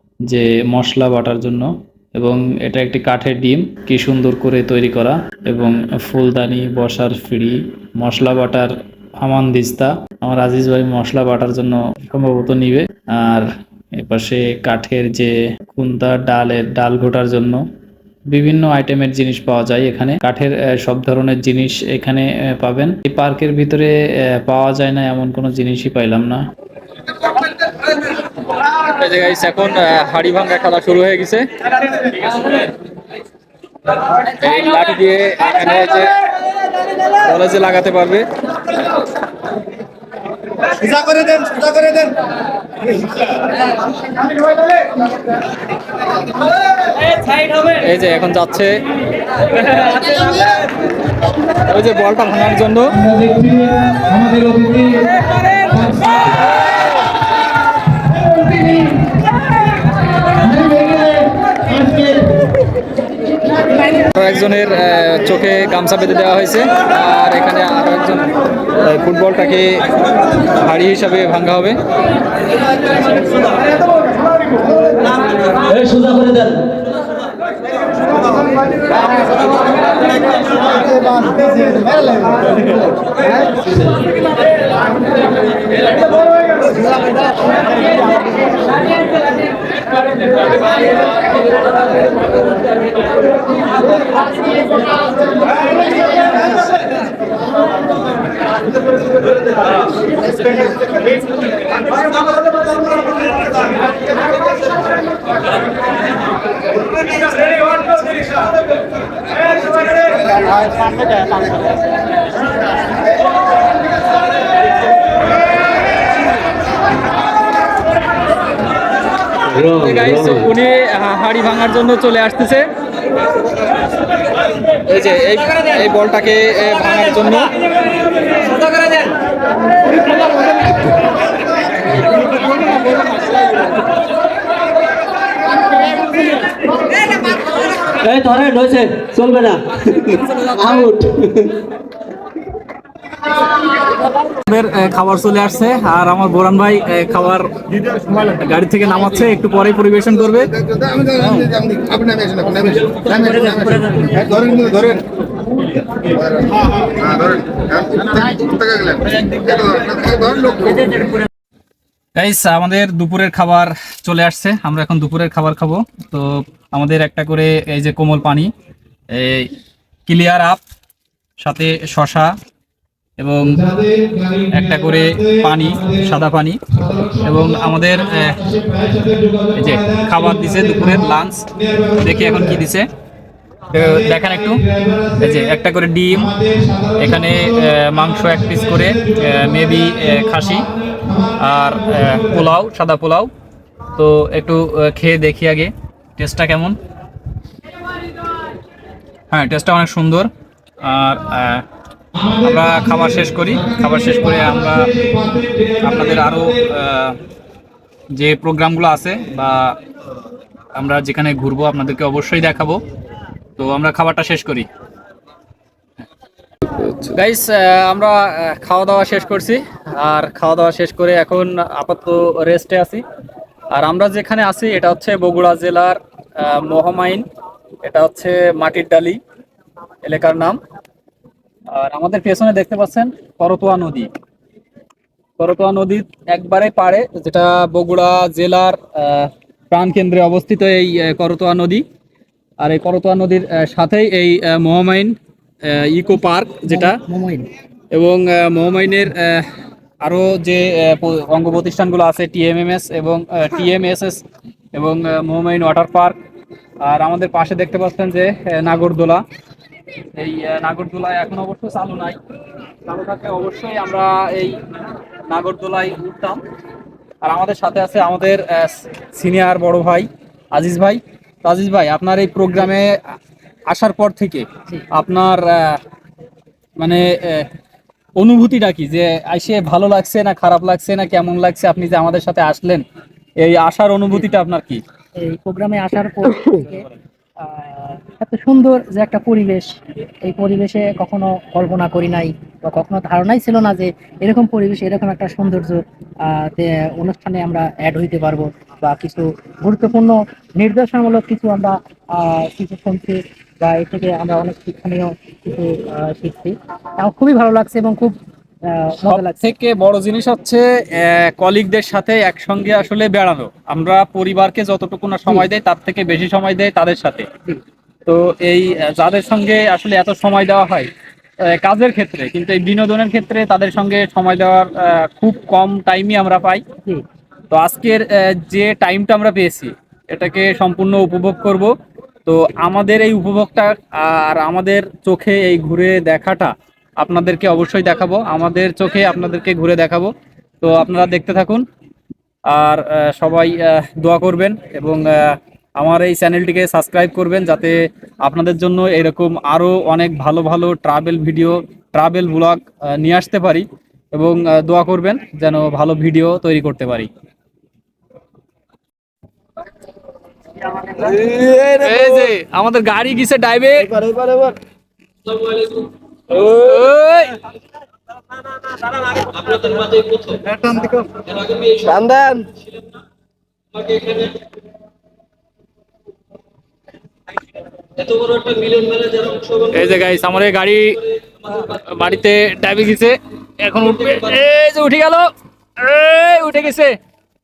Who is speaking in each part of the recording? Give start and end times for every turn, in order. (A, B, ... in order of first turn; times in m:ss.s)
0:00.3-0:17.6 A
0:18.3-0:26.4 A
0:27.3-0:32.7 B
0:34.1-0:36.2 B
0:37.0-0:38.2 B
0:40.9-0:42.0 B
0:47.5-0:48.7 B
0:49.5-0:50.6 B
0:51.5-0:53.1 B
0:53.1-0:55.0 C
1:03.8-1:11.8 B
1:15.7-1:16.5 D
1:21.8-1:22.2 C
1:50.7-1:51.0 B
1:59.5-1:59.8 D
1:59.5-2:02.7 B
2:04.8-2:07.5 B
2:18.0-2:21.5 D
2:20.1-2:20.9 B
2:24.3-2:27.5 B
2:28.2-2:30.5 B
2:31.0-2:31.7 B
2:32.6-2:33.4 E
2:33.6-2:35.0 B
2:42.1-2:48.5 B
2:49.1-2:49.5 B
2:50.0-2:50.6 B
2:51.4-2:52.3 B
2:53.2-3:02.8 B
3:03.7-3:13.3 B
3:14.0-3:16.8 B
3:19.3-3:20.3 B
3:20.8-3:21.6 B
3:22.4-3:27.2 B
3:28.1-3:29.8 B
3:30.7-3:32.8 B
3:33.6-3:34.7 B
3:36.8-3:43.0 B
3:43.7-3:47.2 B
3:47.8-3:49.2 B
3:50.0-3:50.6 B
3:51.7-3:54.1 B
3:55.4-4:01.8 B
4:02.6-4:07.0 B
4:06.7-4:07.5 E
4:07.9-4:09.5 B
4:10.0-4:16.2 B
4:16.8-4:19.2 B
4:20.2-4:22.2 B
4:22.8-4:24.6 B
4:25.3-4:26.4 B
4:27.2-4:33.0 B
4:33.7-4:35.8 B
4:36.8-4:37.5 B
4:38.2-4:42.8 B
4:43.4-4:44.8 B
4:45.2-4:46.8 E
4:47.4-5:09.4 E
5:09.0-5:17.3 B
5:18.0-5:20.9 B
5:21.4-5:26.6 B
5:27.5-5:31.7 B
5:32.2-5:41.6 B
5:42.5-5:57.1 B
6:00.8-6:04.0 B
6:01.1-6:01.8 D
6:03.9-6:04.6 D
6:05.4-6:07.4 B
6:09.0-6:10.3 B
6:10.4-6:11.2 D
6:11.8-6:12.4 D
6:18.0-6:25.3 B
6:25.8-6:27.0 B